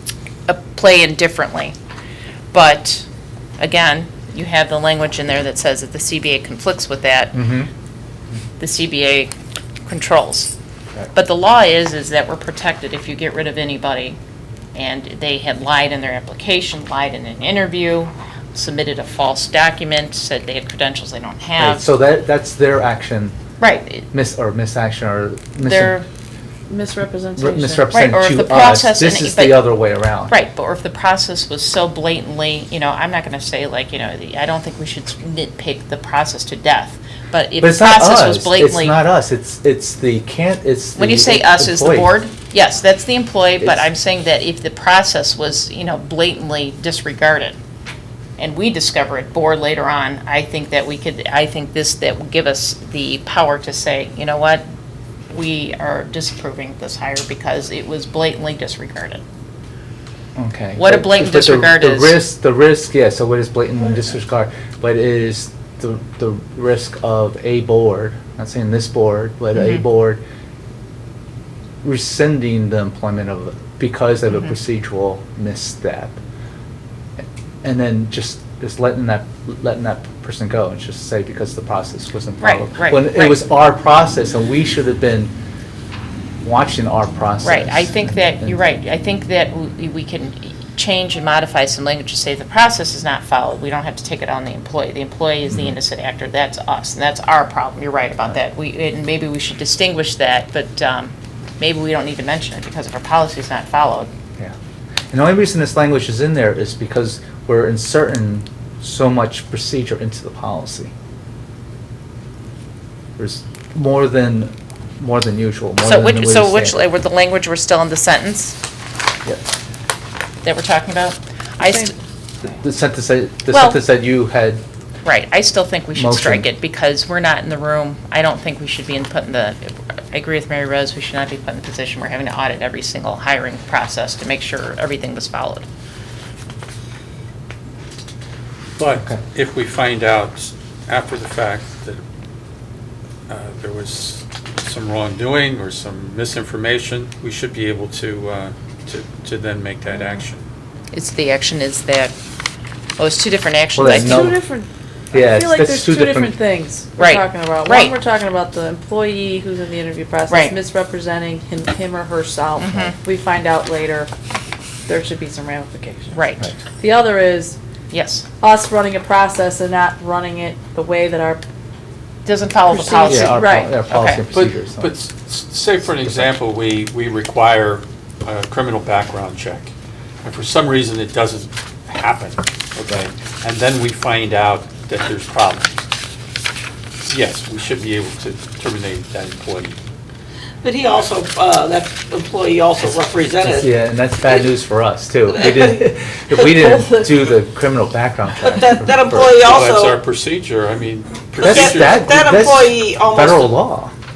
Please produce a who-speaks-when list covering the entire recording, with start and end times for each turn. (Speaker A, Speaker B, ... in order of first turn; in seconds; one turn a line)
Speaker A: 0.5-1.7
Speaker A: 2.5-3.0
Speaker A: 3.6-7.4
Speaker B: 7.3-7.7
Speaker A: 8.6-9.3
Speaker A: 9.9-10.5
Speaker A: 11.1-14.2
Speaker A: 14.7-21.8
Speaker B: 21.6-23.4
Speaker A: 23.6-24.1
Speaker B: 24.1-26.0
Speaker C: 25.6-26.0
Speaker C: 26.7-27.8
Speaker B: 27.4-30.3
Speaker A: 27.9-29.7
Speaker A: 30.3-39.0
Speaker B: 37.6-42.1
Speaker A: 41.0-47.6
Speaker A: 48.4-54.6
Speaker A: 55.3-59.2
Speaker B: 60.4-70.2
Speaker A: 60.8-62.2
Speaker A: 69.5-69.8
Speaker B: 71.8-76.2
Speaker B: 77.2-85.3
Speaker A: 82.4-83.5
Speaker B: 86.4-88.6
Speaker A: 87.4-104.1
Speaker B: 95.5-95.8
Speaker B: 105.1-110.9
Speaker B: 113.2-116.8
Speaker A: 115.8-118.6
Speaker A: 120.4-121.9
Speaker C: 121.7-121.9
Speaker B: 122.4-124.6
Speaker A: 123.5-123.8
Speaker A: 125.0-135.7
Speaker B: 125.9-126.5
Speaker D: 138.8-142.0
Speaker D: 143.3-150.4
Speaker A: 150.9-152.1
Speaker A: 153.0-154.3
Speaker B: 153.7-154.4
Speaker C: 153.9-164.1
Speaker B: 155.1-156.3
Speaker A: 157.0-157.9
Speaker A: 160.3-160.6
Speaker A: 162.6-162.9
Speaker C: 164.9-166.2
Speaker A: 166.1-166.5
Speaker C: 166.8-167.6
Speaker A: 167.9-168.2
Speaker C: 168.4-171.4
Speaker A: 172.2-174.2
Speaker C: 172.7-173.7
Speaker B: 172.9-174.9
Speaker D: 174.3-179.7
Speaker D: 180.2-185.8
Speaker D: 187.0-189.8
Speaker E: 190.6-193.7
Speaker B: 193.5-199.3
Speaker E: 195.3-196.9
Speaker E: 198.4-200.0
Speaker D: 199.4-202.1
Speaker E: 201.4-203.5
Speaker B: 201.4-203.9